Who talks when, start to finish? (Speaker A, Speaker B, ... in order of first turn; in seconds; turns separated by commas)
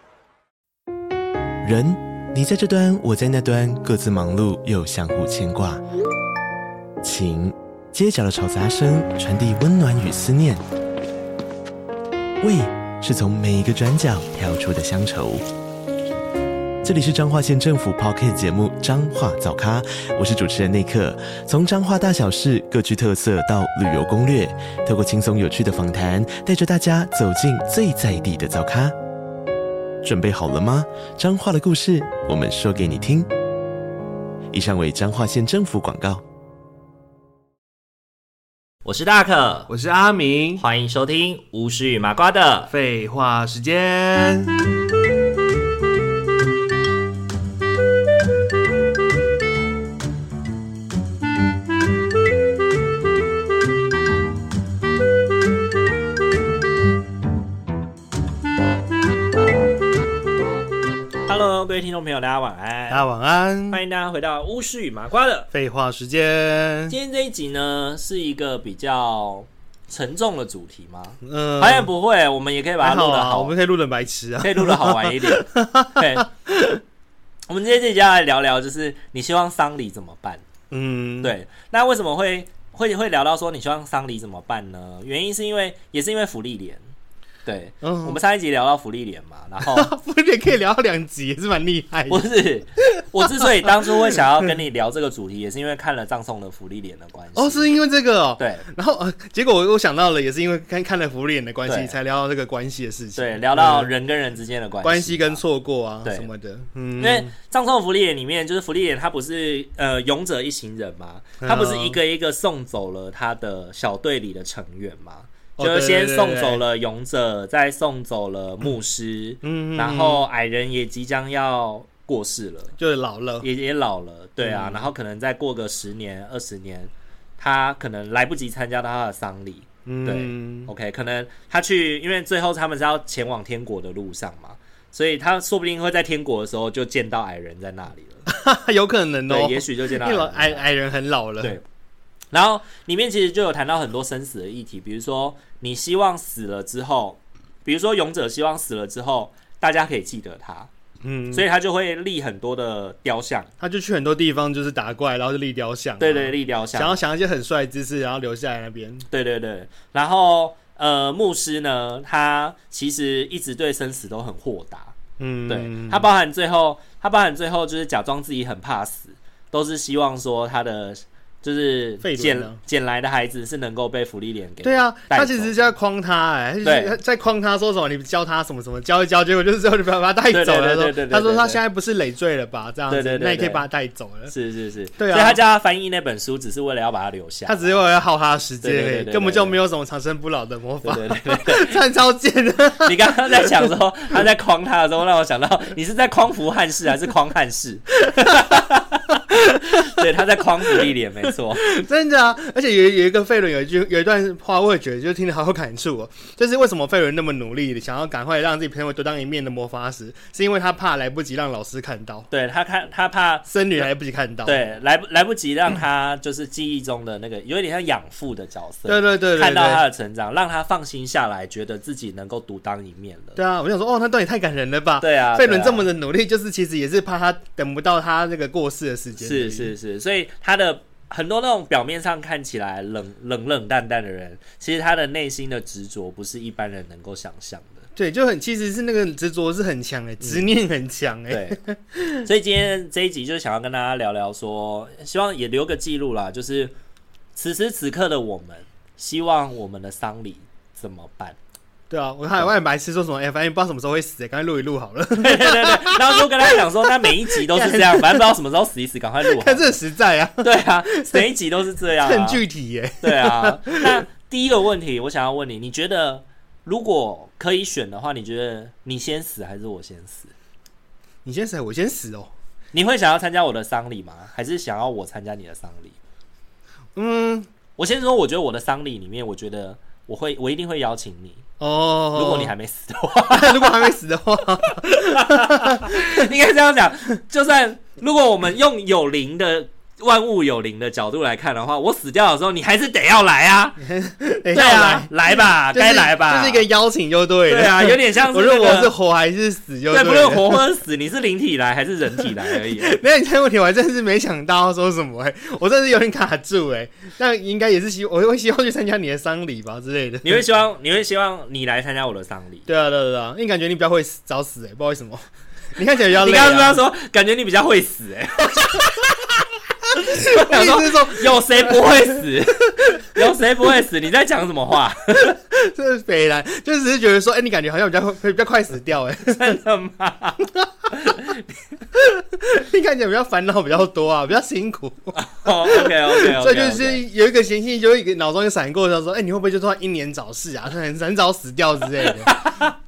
Speaker A: 1.6-5.8, Speaker A: 7.0-10.6, Speaker A: 12.4-15.4, Speaker A: 16.8-28.9, Speaker A: 30.0-33.3, Speaker A: 34.5-36.2, Speaker B: 38.8-39.7, Speaker C: 39.7-40.6, Speaker B: 40.6-42.7, Speaker C: 42.7-44.7, Speaker B: 61.2-63.0, Speaker C: 62.9-63.8, Speaker B: 63.7-65.5, Speaker C: 65.5-66.9, Speaker B: 66.9-73.5, Speaker C: 71.2-71.9, Speaker C: 72.8-76.8, Speaker B: 74.4-76.2, Speaker B: 77.5-80.4, Speaker C: 80.7-81.3, Speaker B: 81.2-86.8, Speaker B: 87.5-89.9, Speaker C: 87.8-88.2, Speaker C: 89.6-92.3, Speaker B: 92.1-97.7, Speaker C: 92.9-94.2, Speaker C: 97.3-103.9, Speaker B: 98.4-98.6, Speaker B: 101.7-101.9, Speaker B: 103.2-105.4, Speaker C: 104.8-107.3, Speaker B: 106.0-106.3, Speaker B: 107.0-122.7, Speaker C: 111.4-112.0, Speaker C: 115.6-116.6, Speaker C: 119.4-120.2, Speaker C: 122.8-123.5, Speaker B: 123.4-138.2, Speaker C: 124.4-124.9, Speaker C: 129.8-130.7, Speaker C: 138.3-141.6, Speaker B: 139.3-140.6, Speaker B: 142.3-150.7, Speaker C: 151.0-151.4, Speaker B: 151.3-153.5, Speaker C: 153.6-159.1, Speaker B: 156.0-157.0, Speaker B: 159.1-164.9, Speaker C: 165.2-166.1, Speaker B: 165.5-175.6, Speaker C: 172.0-172.6, Speaker C: 174.6-184.3, Speaker B: 176.6-176.9, Speaker B: 180.3-181.6, Speaker B: 182.9-183.6, Speaker B: 184.3-187.8, Speaker C: 185.0-185.4, Speaker C: 187.4-193.7, Speaker B: 188.6-189.6, Speaker B: 190.8-191.8, Speaker B: 192.8-201.7, Speaker C: 199.3-199.8, Speaker C: 201.6-212.3, Speaker B: 212.3-213.9, Speaker C: 213.5-214.6, Speaker B: 214.4-223.4, Speaker C: 218.9-219.8, Speaker C: 223.3-229.7, Speaker B: 225.0-225.9, Speaker B: 229.2-237.8, Speaker C: 237.9-242.3, Speaker B: 240.2-240.5, Speaker B: 241.3-241.6, Speaker B: 242.2-246.7, Speaker B: 247.3-251.4, Speaker C: 251.9-258.3, Speaker B: 255.1-259.8, Speaker C: 259.2-261.3, Speaker B: 260.4-262.4, Speaker C: 262.0-264.0, Speaker B: 263.0-270.3, Speaker C: 271.2-272.3, Speaker B: 272.7-276.0, Speaker C: 276.9-277.5, Speaker B: 277.8-281.4, Speaker C: 281.6-282.5, Speaker B: 282.1-283.9, Speaker C: 283.3-286.3, Speaker B: 284.8-293.8, Speaker C: 293.8-300.6, Speaker B: 294.5-296.6, Speaker B: 297.5-298.9, Speaker B: 299.9-303.0, Speaker C: 302.2-310.4, Speaker B: 310.2-312.7, Speaker C: 312.7-315.2, Speaker C: 315.8-316.8, Speaker B: 316.1-325.4, Speaker C: 320.0-322.2, Speaker C: 325.2-329.6, Speaker B: 329.3-331.6, Speaker C: 331.9-342.3, Speaker B: 335.1-337.0, Speaker B: 342.1-342.7